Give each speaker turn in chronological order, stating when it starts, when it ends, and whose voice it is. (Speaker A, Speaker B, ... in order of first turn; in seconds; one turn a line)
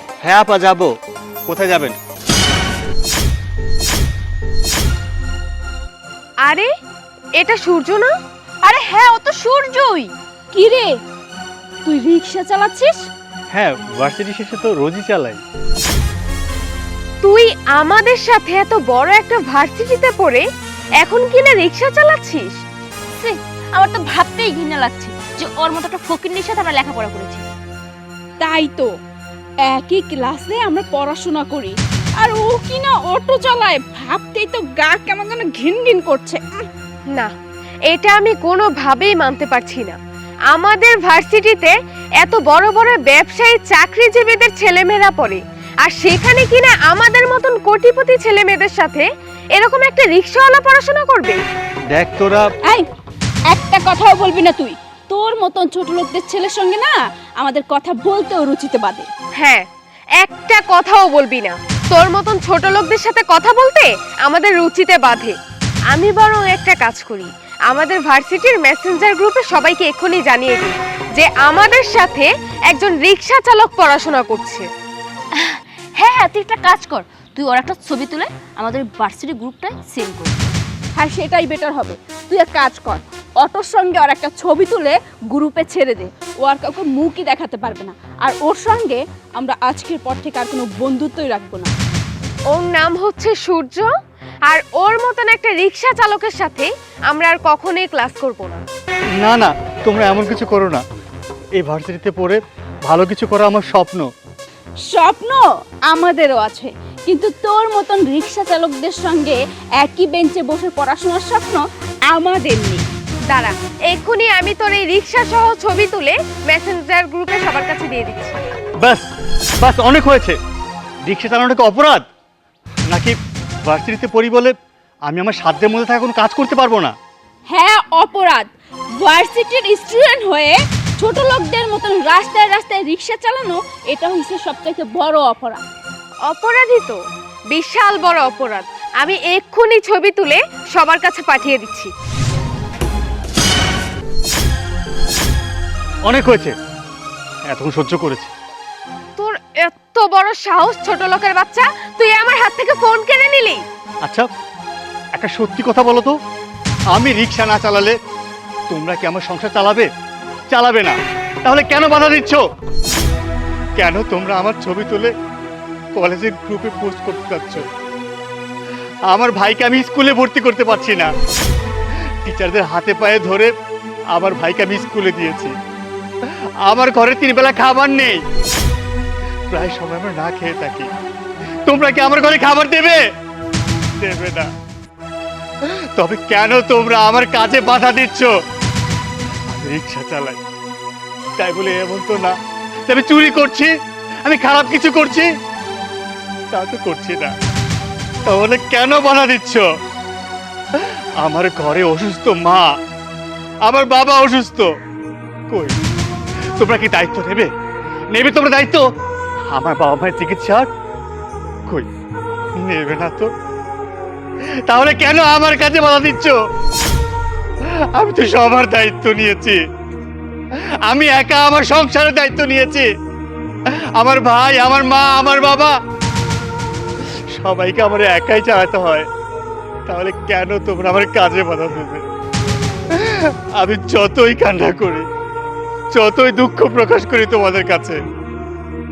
Speaker A: 0.2-0.9
Speaker A: 1.5-2.0
Speaker B: 7.4-8.1
Speaker C: 8.7-10.1
Speaker D: 10.5-10.9
Speaker D: 11.8-13.0
Speaker A: 13.5-15.4
Speaker B: 17.2-20.4
Speaker B: 21.0-22.5
Speaker C: 23.2-27.4
Speaker D: 28.4-28.9
Speaker D: 29.7-36.4
Speaker B: 37.9-40.0
Speaker B: 40.5-51.4
Speaker A: 51.9-52.5
Speaker D: 53.5-59.1
Speaker B: 59.4-59.6
Speaker B: 60.2-65.3
Speaker B: 65.9-74.7
Speaker C: 75.4-80.5
Speaker D: 81.0-91.7
Speaker B: 92.5-93.9
Speaker B: 94.5-98.6
Speaker A: 99.2-100.8
Speaker A: 101.6-104.1
Speaker D: 104.9-112.8
Speaker B: 113.3-118.4
Speaker A: 119.6-120.4
Speaker A: 121.0-122.0
Speaker A: 122.9-124.5
Speaker A: 125.1-127.0
Speaker D: 127.5-128.5
Speaker D: 129.0-135.6
Speaker B: 136.3-137.0
Speaker B: 137.5-141.9
Speaker A: 146.1-146.6
Speaker A: 147.5-148.3
Speaker B: 149.2-153.6
Speaker A: 155.1-156.2
Speaker A: 156.9-158.0
Speaker A: 158.7-159.9
Speaker A: 160.5-162.4
Speaker A: 163.8-165.1
Speaker A: 166.0-167.7
Speaker A: 169.1-171.1
Speaker A: 172.2-173.5
Speaker A: 174.1-175.5
Speaker A: 176.7-178.2
Speaker A: 179.5-180.9
Speaker A: 181.7-183.0
Speaker A: 184.0-184.5
Speaker A: 185.7-188.3
Speaker A: 189.5-190.4
Speaker A: 191.4-193.7
Speaker A: 194.2-195.3
Speaker A: 196.5-197.3
Speaker A: 198.3-199.6
Speaker A: 200.8-202.7
Speaker A: 203.7-204.7
Speaker A: 205.5-205.8
Speaker A: 206.6-207.5
Speaker A: 208.1-208.9
Speaker A: 209.5-210.7
Speaker A: 212.6-213.3
Speaker A: 214.7-216.4
Speaker A: 217.9-219.6
Speaker A: 220.9-222.9
Speaker A: 224.0-225.8
Speaker A: 227.3-229.1
Speaker A: 229.9-232.0
Speaker A: 232.9-235.1
Speaker A: 235.9-238.0